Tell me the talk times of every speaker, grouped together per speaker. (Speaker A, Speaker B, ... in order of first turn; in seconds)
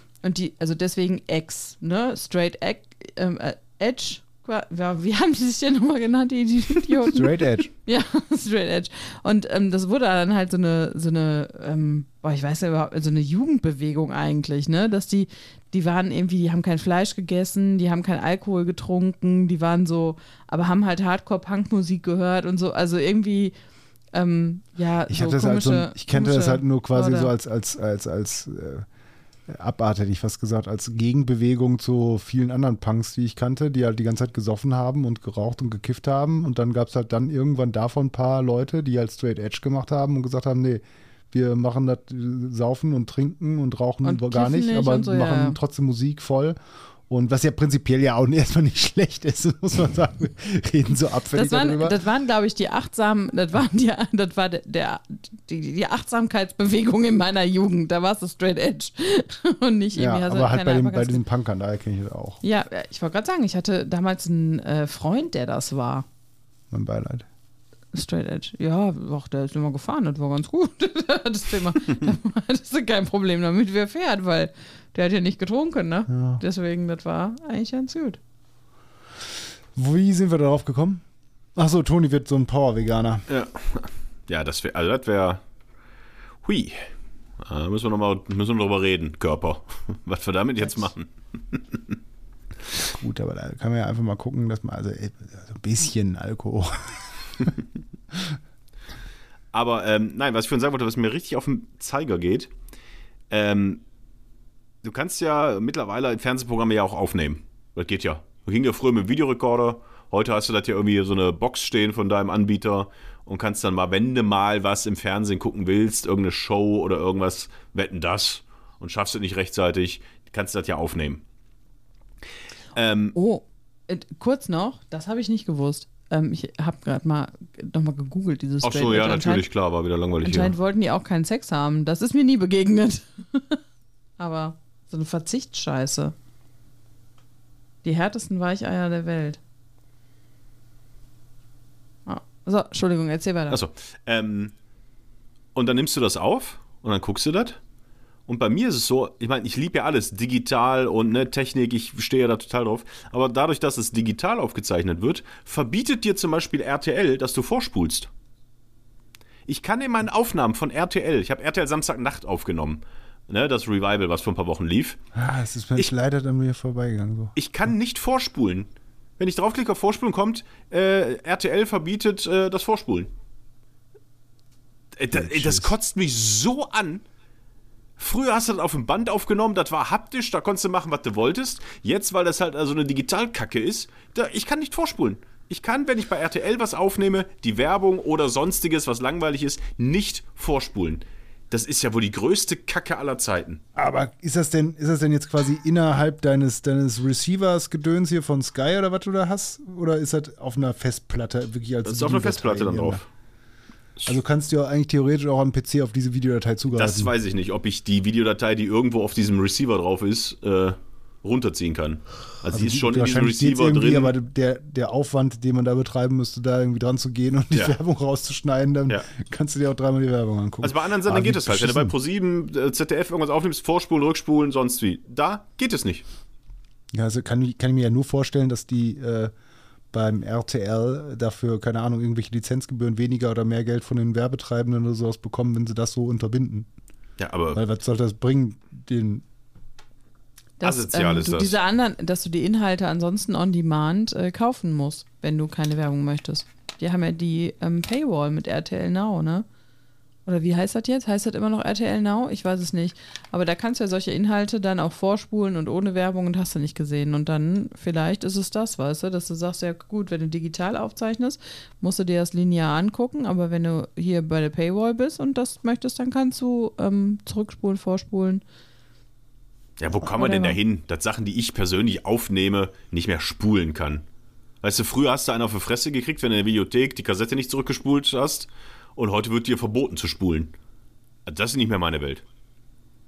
Speaker A: 0.2-23.5, 24.1-27.3, 44.0-45.6, 51.3-61.2, 62.4-66.1, 67.9-78.2, 123.1-129.4, 130.2-133.6, 134.2-136.1, 137.8-139.4, 142.1-143.6, 240.6-249.5, 250.3-268.4, 270.2-270.6
Speaker B: 7.1-7.7, 25.1-28.9, 29.5-46.6, 47.1-52.0, 60.0-62.4, 66.7-67.3, 76.1-76.4, 79.8-81.0, 81.5-83.3, 92.8-97.5, 165.1-167.3, 175.1-175.7, 193.8-203.0, 204.0-207.1, 212.5-221.9, 226.9-229.3, 229.9-236.7, 237.5-239.2
Speaker C: 83.3-85.4, 86.4-92.0, 99.5-102.5, 103.3-103.8, 104.8-121.2, 122.8-123.1, 128.6-130.6, 143.5-144.5, 145.6-147.6, 148.3-158.1, 159.5-165.0, 167.4-173.1, 175.0-177.0, 178.0-193.6, 201.8-203.1, 206.8-214.1, 220.6-226.1, 237.2-237.6, 240.6-241.6, 269.8-274.0, 274.6-280.5, 281.3-282.2